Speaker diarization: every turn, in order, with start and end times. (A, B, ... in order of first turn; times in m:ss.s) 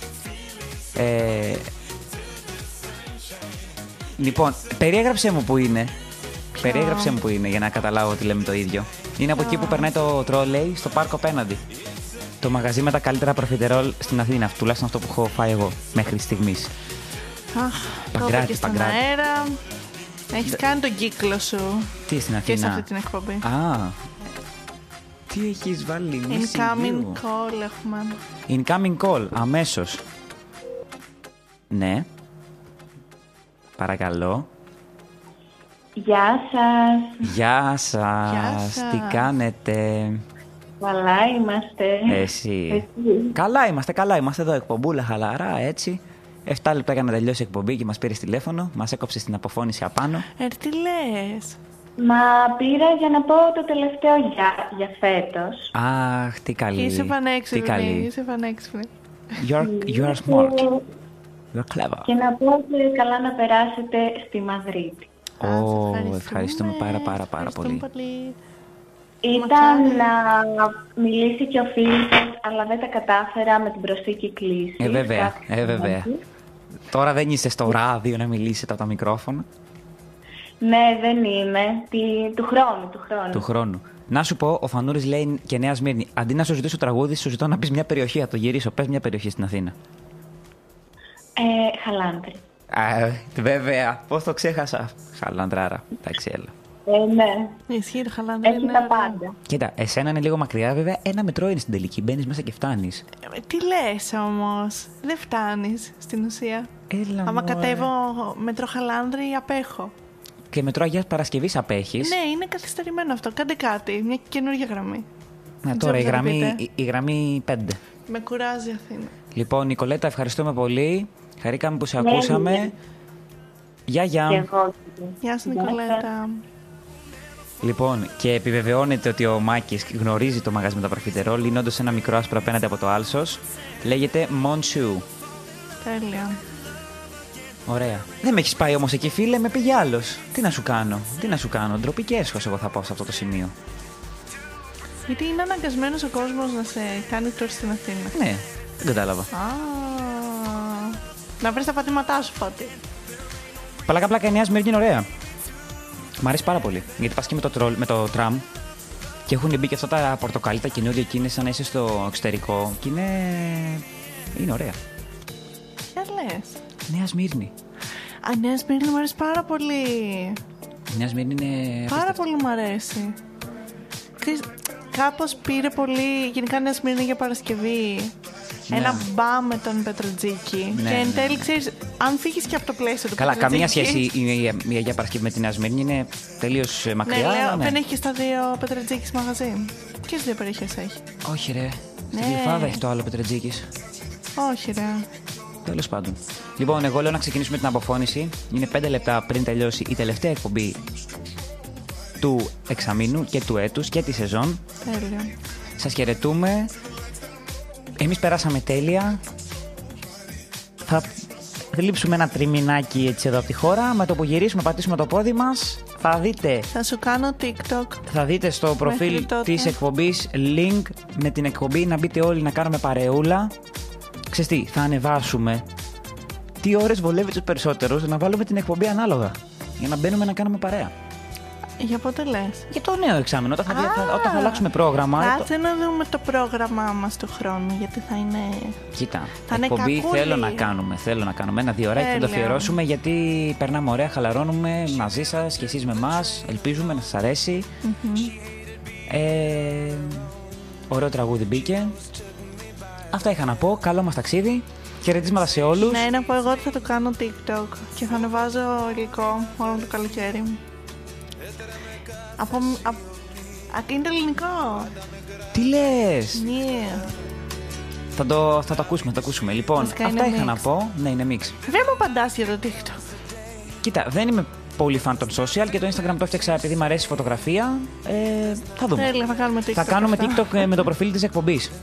0:01.0-0:01.7 A
0:04.2-0:06.0 A
0:06.5-0:07.2 B
0:06.6-0:11.6 A
0:09.4-0:09.9 B
0:12.4-0:16.7 A
0:17.5-0:19.6 B
0:18.2-0:19.0 A
0:20.3-0:21.9 B
0:22.1-0:22.9 A
0:22.5-0:23.4 B
0:23.4-0:24.0 A
0:25.3-0:27.2 A
0:26.3-0:28.2 B
0:28.5-0:30.0 A
0:31.7-0:32.1 A
0:33.8-0:34.5 A
0:36.0-0:37.3 C
0:37.2-0:40.2 A
0:38.3-0:39.3 B
0:40.8-0:43.3 C
0:42.1-0:50.2 A
0:50.4-0:51.6 B
0:52.0-0:55.7 C
0:55.7-0:58.1 A
0:56.8-0:58.9 B
0:59.4-1:00.6 A
0:59.6-1:00.8 C
1:01.5-1:02.1 A
1:02.1-1:05.1 C
1:05.4-1:07.8 A
1:05.4-1:08.4 B
1:09.2-1:16.2 C
1:09.3-1:10.1 B
1:14.8-1:16.1 A
1:16.9-1:19.5 A
1:20.6-1:23.5 C
1:23.3-1:29.8 A
1:31.4-1:32.4 C
1:32.7-1:36.5 A
1:36.9-1:37.6 C
1:37.7-1:39.2 B
1:38.4-1:39.4 C
1:39.5-1:43.0 A
1:43.3-1:46.7 B
1:46.9-1:47.9 A
1:47.3-1:49.9 B
1:50.5-1:52.2 A
1:52.0-1:55.1 B
1:55.6-1:57.8 A
1:55.7-1:56.6 B
1:58.1-1:59.1 B
1:59.4-2:02.7 A
2:02.0-2:02.7 C
2:03.9-2:04.5 A
2:04.3-2:06.0 C
2:05.2-2:06.4 B
2:07.6-2:15.0 A
2:15.8-2:16.4 B
2:17.7-2:23.5 A
2:25.1-2:28.1 B
2:28.1-2:29.3 A
2:29.3-2:32.7 B
2:33.9-2:35.1 A
2:36.2-2:38.5 A
2:39.3-2:44.8 A
2:45.9-2:46.6 B
2:46.9-2:47.5 A
2:48.2-2:50.4 B
2:50.9-2:52.2 A
2:51.9-2:53.2 B
2:54.2-2:58.1 B
2:58.7-2:59.0 A
2:58.7-3:04.0 B
3:00.8-3:01.5 A
3:03.2-3:07.8 A
3:07.0-3:11.0 B
3:11.2-3:13.7 A
3:12.1-3:12.8 B
3:14.4-3:15.1 B
3:15.6-3:20.8 A
3:22.2-3:24.6 A
3:24.8-3:25.3 B
3:25.8-3:26.7 A
3:28.0-3:29.2 A
3:30.9-3:36.7 A
3:36.7-3:38.0 B
3:38.1-3:43.5 A
3:38.8-3:39.8 B
3:44.3-3:45.6 A
3:46.6-3:50.9 A
3:51.8-3:52.7 B
3:52.7-3:55.5 A
3:53.7-3:58.8 B
3:58.9-4:07.7 A
3:59.5-4:00.7 B
4:02.0-4:02.8 B
4:07.8-4:08.3 B
4:09.1-4:10.3 A
4:10.9-4:12.0 A
4:13.1-4:16.0 A
4:15.8-4:20.6 B
4:22.4-4:23.0 B
4:23.7-4:24.9 B
4:25.5-4:26.4 A
4:26.4-4:27.1 B
4:28.2-4:31.6 A
4:29.8-4:30.6 B
4:31.7-4:33.0 B
4:33.8-4:39.1 A
4:39.0-4:40.9 B
4:39.7-4:41.7 A